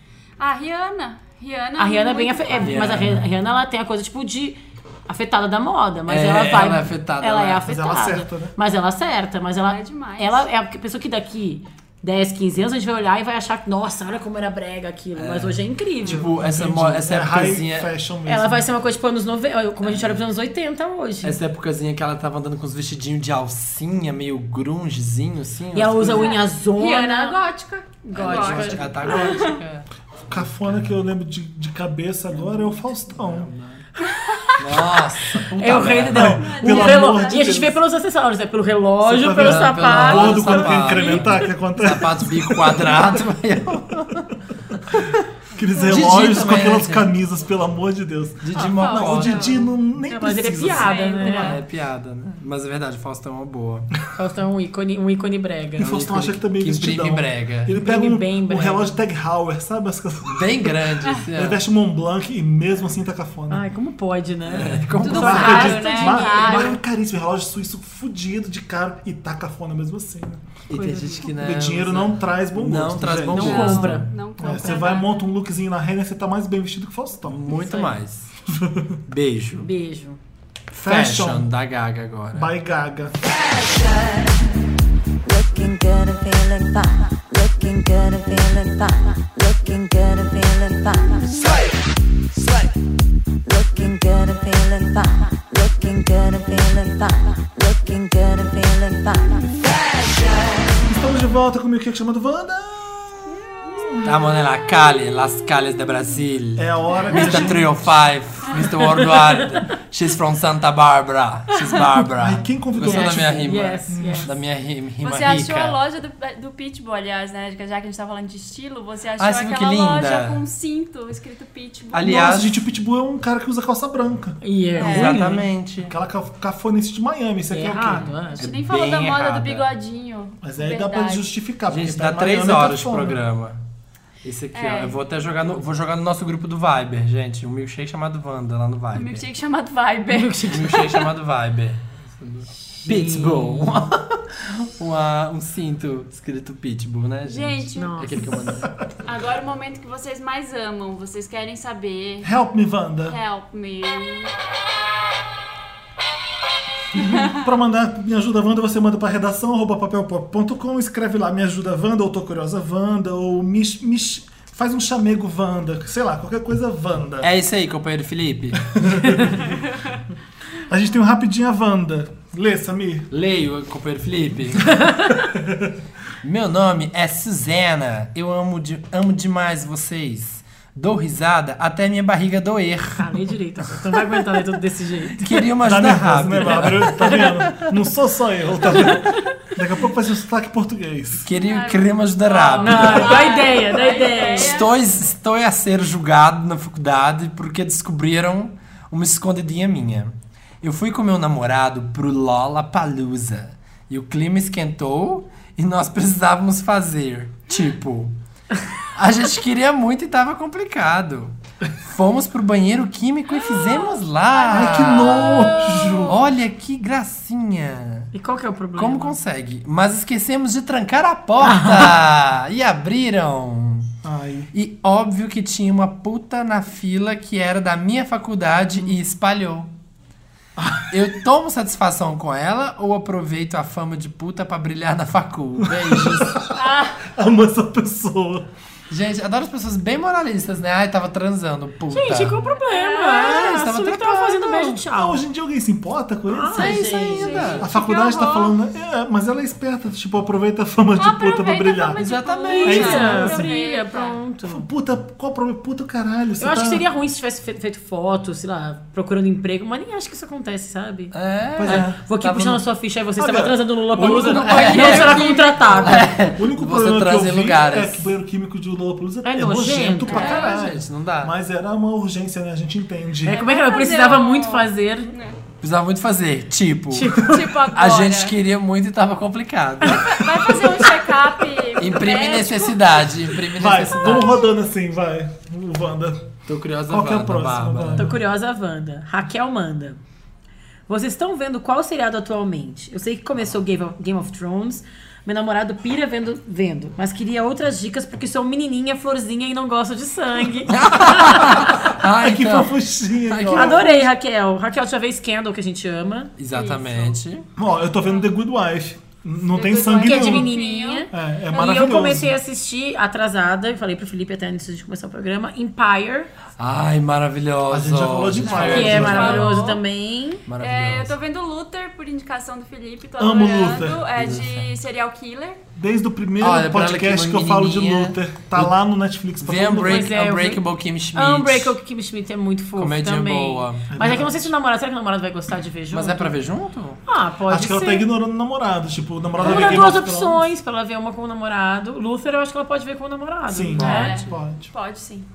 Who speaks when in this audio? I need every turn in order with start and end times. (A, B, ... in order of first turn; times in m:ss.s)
0:00.4-0:03.0 A
0:01.8-0:16.3 B
0:02.6-0:03.2 C
0:06.1-0:07.6 C
0:07.6-0:08.5 D
0:09.6-0:10.4 A
0:15.2-0:17.9 C
0:16.3-0:18.7 D
0:18.2-0:21.4 B
0:19.8-0:20.2 C
0:21.2-0:26.4 C
0:25.7-0:27.4 B
0:26.1-0:29.6 A
0:28.0-0:29.5 B
0:28.1-0:31.0 C
0:30.3-0:33.5 D
0:32.3-0:33.8 C
0:34.0-0:34.6 A
0:34.6-0:36.4 C
0:35.6-0:41.2 B
0:36.1-0:37.8 D
0:36.4-0:37.6 A
0:39.0-0:43.2 D
0:39.3-0:45.2 C
0:41.0-0:41.3 A
0:45.5-0:51.2 D
0:45.8-0:47.1 C
0:48.4-0:49.5 C
0:48.7-0:49.7 A
0:50.0-0:51.6 B
0:50.6-0:51.6 A
0:51.2-0:53.9 C
0:54.1-0:55.9 B
0:55.8-1:03.7 D
0:55.8-0:57.7 C
0:57.7-0:59.0 B
1:00.2-1:01.6 C
1:03.5-1:06.8 B
1:04.5-1:05.8 C
1:05.0-1:10.6 D
1:05.0-1:06.8 A
1:10.7-1:14.1 C
1:10.7-1:11.3 B
1:11.3-1:17.4 D
1:13.3-1:14.1 B
1:13.5-1:15.2 A
1:17.3-1:18.3 C
1:17.5-1:18.0 B
1:18.5-1:19.0 D
1:19.1-1:19.7 C
1:19.6-1:20.2 B
1:20.7-1:22.5 C
1:20.8-1:21.5 D
1:22.3-1:23.2 D
1:23.7-1:24.3 E
1:25.2-1:31.7 E
1:32.4-1:32.7 E
1:33.4-1:40.7 E
1:40.8-1:44.1 D
1:44.0-1:55.8 C
1:46.6-1:47.9 D
1:52.0-1:54.3 D
1:53.4-1:54.3 B
1:55.0-2:02.1 A
1:59.2-2:00.4 C
2:01.9-2:02.5 C
2:02.0-2:04.4 D
2:04.4-2:05.4 B
2:04.8-2:05.3 A
2:04.8-2:05.9 C
2:05.8-2:08.1 D
2:07.5-2:08.4 B
2:08.3-2:11.2 A
2:08.4-2:09.7 C
2:10.4-2:13.2 D
2:11.7-2:13.6 C
2:14.2-2:19.2 C
2:14.5-2:15.0 A
2:18.9-2:21.1 A
2:20.1-2:20.7 B
2:20.5-2:28.7 C
2:22.8-2:23.7 B
2:27.2-2:28.3 A
2:27.8-2:28.2 B
2:29.0-2:32.3 A
2:32.2-2:33.2 D
2:33.1-2:34.3 A
2:36.9-2:47.3 D
2:37.0-2:37.4 A
2:47.2-2:49.3 C
2:48.7-2:49.6 D
2:50.6-2:53.1 D
2:53.1-2:54.8 C
2:55.1-2:55.8 D
2:56.2-3:03.2 C
3:03.0-3:05.3 B
3:05.2-3:07.7 C
3:05.5-3:11.3 D
3:11.2-3:13.4 C
3:11.3-3:14.7 A
3:12.6-3:14.6 B
3:14.0-3:28.1 C
3:28.9-3:38.1 C
3:33.3-3:36.0 A
3:34.5-3:36.2 D
3:38.1-3:39.2 B
3:38.8-3:43.9 C
3:41.4-3:42.0 B
3:44.0-3:44.5 D
3:44.5-3:49.7 C
3:50.6-3:51.0 D
3:50.9-3:56.4 C
3:55.6-3:58.5 D
3:56.5-3:57.0 A
3:58.9-4:02.4 C
4:01.9-4:05.2 B
4:02.6-4:03.4 A
4:03.1-4:04.8 C
4:04.9-4:06.8 D
4:06.3-4:07.6 B
4:06.5-4:07.6 C
4:06.6-4:08.5 A
4:07.6-4:12.0 D
4:11.0-4:14.2 A
4:12.0-4:13.4 C
4:12.5-4:14.6 B
4:12.6-4:13.4 D
4:14.4-4:16.8 D
4:16.4-4:21.1 B
4:21.1-4:22.6 C
4:21.6-4:22.0 D
4:21.6-4:26.1 B
4:23.2-4:24.9 D
4:24.0-4:28.1 C
4:24.3-4:26.1 A
4:26.2-4:33.4 D
4:29.2-4:30.4 B
4:30.1-4:30.6 A
4:30.1-4:31.3 C
4:33.2-4:35.1 B
4:33.3-4:35.4 A
4:35.6-4:40.2 C
4:36.9-4:37.5 B
4:37.2-4:38.4 A
4:39.9-4:43.1 A
4:41.8-4:44.4 C
4:43.5-4:46.3 D
4:46.5-4:48.1 C
4:46.9-4:48.2 D
4:48.0-4:50.0 B
4:50.9-5:01.7 B
5:00.7-5:02.7 C
5:02.1-5:04.1 D
5:03.3-5:03.8 C
5:03.5-5:06.3 B
5:06.4-5:07.4 C
5:06.5-5:07.2 A
5:07.6-5:10.5 D
5:09.5-5:11.1 A
5:10.0-5:16.3 B
5:11.1-5:12.3 D
5:16.6-5:19.6 C
5:17.7-5:19.5 D
5:18.4-5:19.8 A
5:18.6-5:20.4 B
5:20.5-5:21.1 C
5:20.6-5:25.6 A
5:23.2-5:24.0 D
5:24.1-5:24.7 C
5:25.8-5:30.1 D
5:26.4-5:28.7 C
5:29.4-5:31.7 C
5:29.8-5:30.6 B
5:31.1-5:36.3 B
5:32.8-5:33.9 C
5:33.9-5:34.5 D
5:35.9-5:37.0 C
5:37.1-5:38.1 B
5:37.5-5:40.5 D
5:39.4-5:44.1 B
5:43.5-5:44.7 D
5:43.8-5:45.3 A
5:43.8-5:44.1 C